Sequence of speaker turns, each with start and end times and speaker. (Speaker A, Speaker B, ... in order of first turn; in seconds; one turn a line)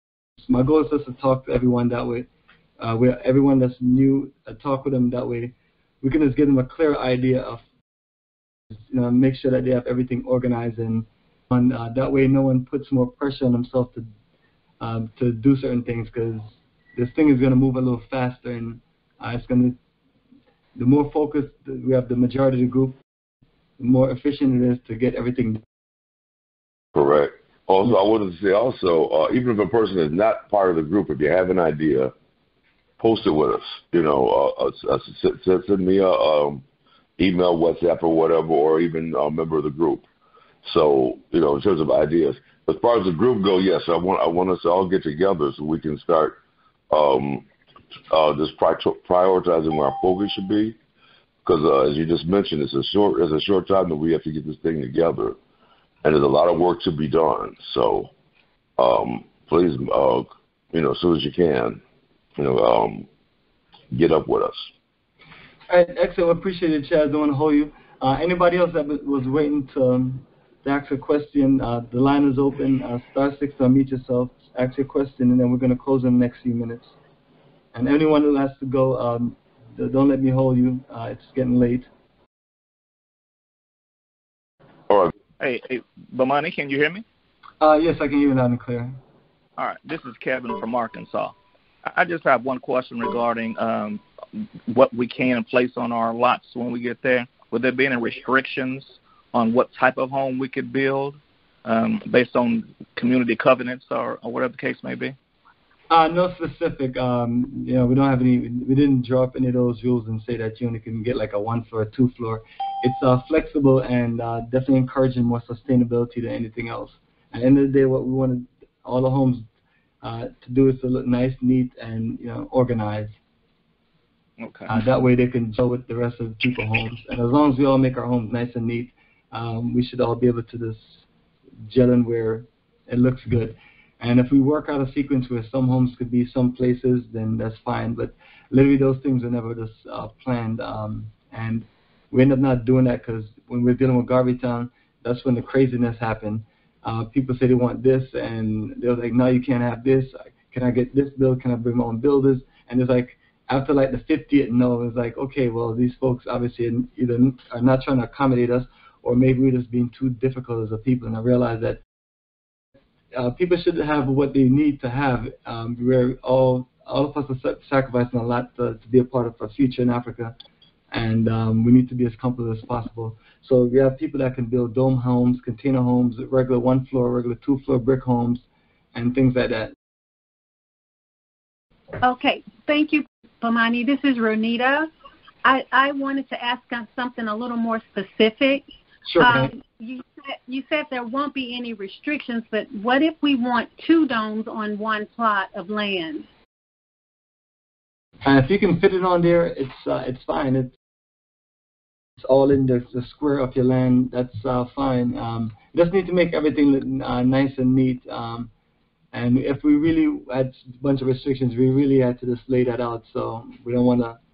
Speaker A: 0.4-2.3
Speaker A: 2.8-7.6
Speaker A: 8.9-14.1
Speaker A: 14.8-19.8
Speaker A: 20.8-23.0
Speaker A: 23.8-25.6
Speaker B: 26.9-32.1
Speaker B: 33.0-36.6
Speaker B: 37.2-40.1
Speaker B: 40.6-46.4
Speaker B: 46.9-47.5
Speaker B: 48.1-50.8
Speaker B: 51.5-55.4
Speaker B: 56.0-58.1
Speaker B: 58.8-61.8
Speaker B: 62.4-63.1
Speaker B: 63.9-64.7
Speaker A: 65.7-77.0
Speaker A: 77.7-81.9
Speaker C: 85.4-87.0
Speaker A: 87.6-89.0
Speaker C: 89.6-94.0
Speaker C: 94.7-105.2
Speaker A: 105.9-119.4
Speaker A: 120.0-123.2
Speaker C: 124.4-124.7
Speaker A: 124.7-131.1
Speaker A: 131.7-161.8
Speaker A: 163.1-170.3
Speaker A: 170.9-179.7
Speaker D: 182.0-184.9
Speaker D: 185.4-188.6
Speaker A: 189.1-189.5
Speaker D: 189.2-196.3
Speaker A: 198.2-200.7
Speaker A: 202.2-208.5
Speaker A: 209.1-214.2